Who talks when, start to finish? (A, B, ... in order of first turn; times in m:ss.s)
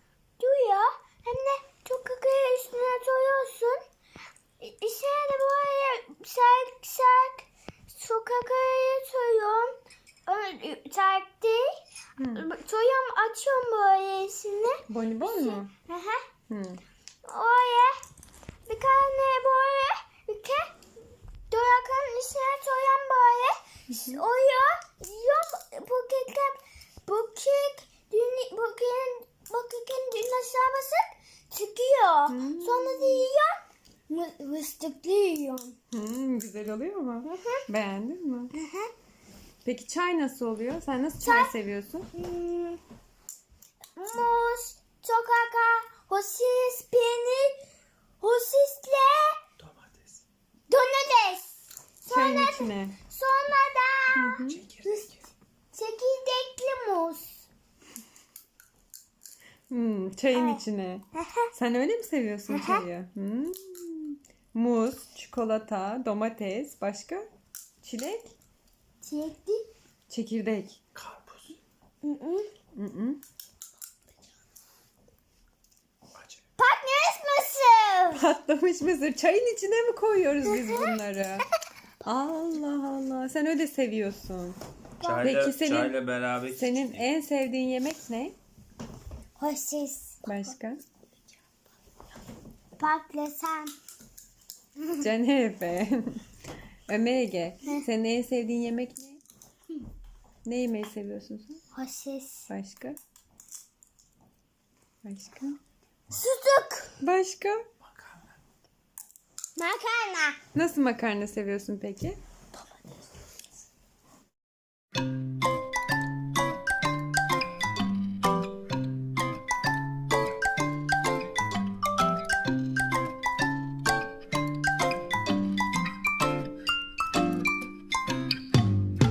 0:00.4-0:03.8 A
0:04.6-0:11.7 A
0:12.2-0:12.5 B
0:12.3-0:16.2 A
0:14.9-0:15.7 B
0:16.5-0:16.8 B
0:17.2-0:18.0 A
0:18.7-0:20.7 A
0:21.5-0:33.5 A
0:23.9-0:24.2 B
0:32.3-0:33.3 B
0:34.1-0:35.8 A
0:35.9-0:38.5 B
0:37.2-0:37.6 A
0:38.6-0:38.9 A
0:39.6-0:42.1 B
0:41.2-0:41.5 A
0:42.1-0:42.8 A
0:44.0-0:47.6 A
0:48.2-0:49.4 A
0:49.6-0:50.2 C
0:50.7-0:57.5 A
0:52.1-0:53.0 B
0:54.2-0:54.6 B
0:54.5-0:55.0 C
0:59.7-1:07.3 B
1:00.3-1:00.6 A
1:01.1-1:01.5 A
1:02.5-1:02.8 A
1:07.8-1:08.4 B
1:09.0-1:09.7 A
1:10.1-1:10.8 B
1:11.0-1:11.6 C
1:12.0-1:12.5 A
1:12.7-1:13.2 B
1:16.6-1:18.2 A
1:18.1-1:21.5 B
1:20.5-1:21.0 A
1:22.0-1:24.6 B
1:25.0-1:25.4 A
1:25.1-1:26.7 C
1:25.2-1:26.0 B
1:26.5-1:28.4 B
1:29.4-1:30.3 A
1:30.3-1:30.8 B
1:32.8-1:33.8 A
1:34.9-1:36.2 B
1:36.9-1:39.2 B
1:40.4-1:41.6 B
1:41.7-1:42.5 A
1:42.5-1:43.0 B
1:45.0-1:45.6 B
1:46.1-1:47.0 A
1:47.0-1:47.6 B
1:49.6-1:50.4 A
1:50.5-1:52.2 B